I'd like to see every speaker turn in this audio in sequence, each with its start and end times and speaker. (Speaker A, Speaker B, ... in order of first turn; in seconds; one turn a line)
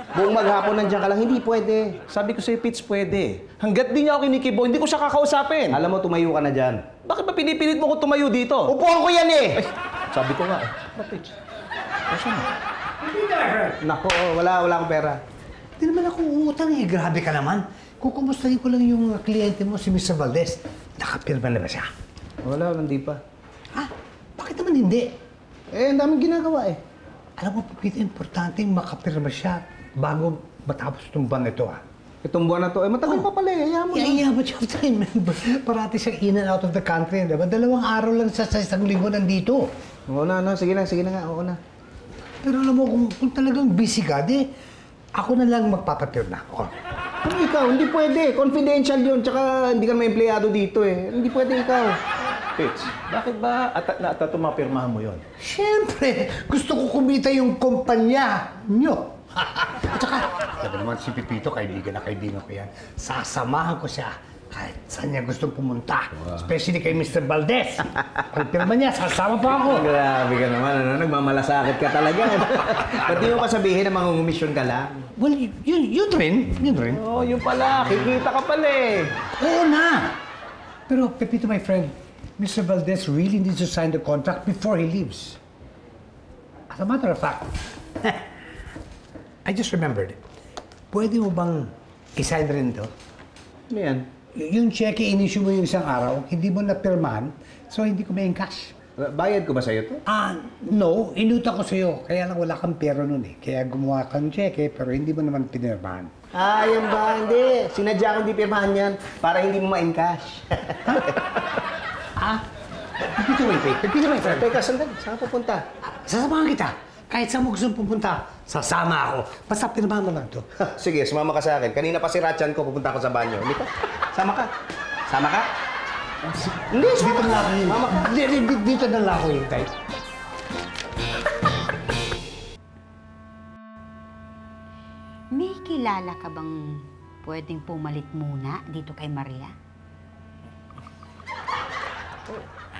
Speaker A: 0.1-1.9
Speaker B: 2.1-5.8
Speaker A: 5.7-6.8
Speaker B: 7.0-8.7
Speaker A: 8.7-9.6
Speaker B: 9.6-11.3
Speaker B: 12.1-12.5
Speaker C: 13.0-13.8
Speaker A: 13.8-15.2
Speaker C: 15.8-21.9
Speaker A: 22.4-23.2
Speaker C: 24.4-25.1
Speaker A: 25.7-26.8
Speaker C: 27.4-31.8
Speaker A: 32.2-34.2
Speaker C: 33.9-39.7
Speaker A: 40.1-41.6
Speaker C: 42.4-44.4
Speaker C: 45.1-46.7
Speaker A: 47.2-52.0
Speaker B: 52.6-55.2
Speaker C: 55.4-69.9
Speaker A: 69.6-74.9
Speaker C: 75.2-77.0
Speaker B: 76.9-79.1
Speaker A: 77.9-78.2
Speaker C: 79.4-80.2
Speaker C: 80.9-85.4
Speaker C: 86.7-87.5
Speaker C: 88.0-88.3
Speaker C: 89.4-90.2
Speaker C: 90.9-92.9
Speaker A: 93.7-94.0
Speaker C: 94.3-98.7
Speaker A: 99.0-100.0
Speaker C: 100.0-106.1
Speaker A: 106.3-111.1
Speaker C: 112.2-112.4
Speaker C: 113.0-114.6
Speaker A: 114.2-115.6
Speaker C: 115.9-120.7
Speaker A: 120.8-124.5
Speaker A: 125.1-125.5
Speaker A: 126.7-128.1
Speaker C: 126.8-129.7
Speaker D: 135.3-139.5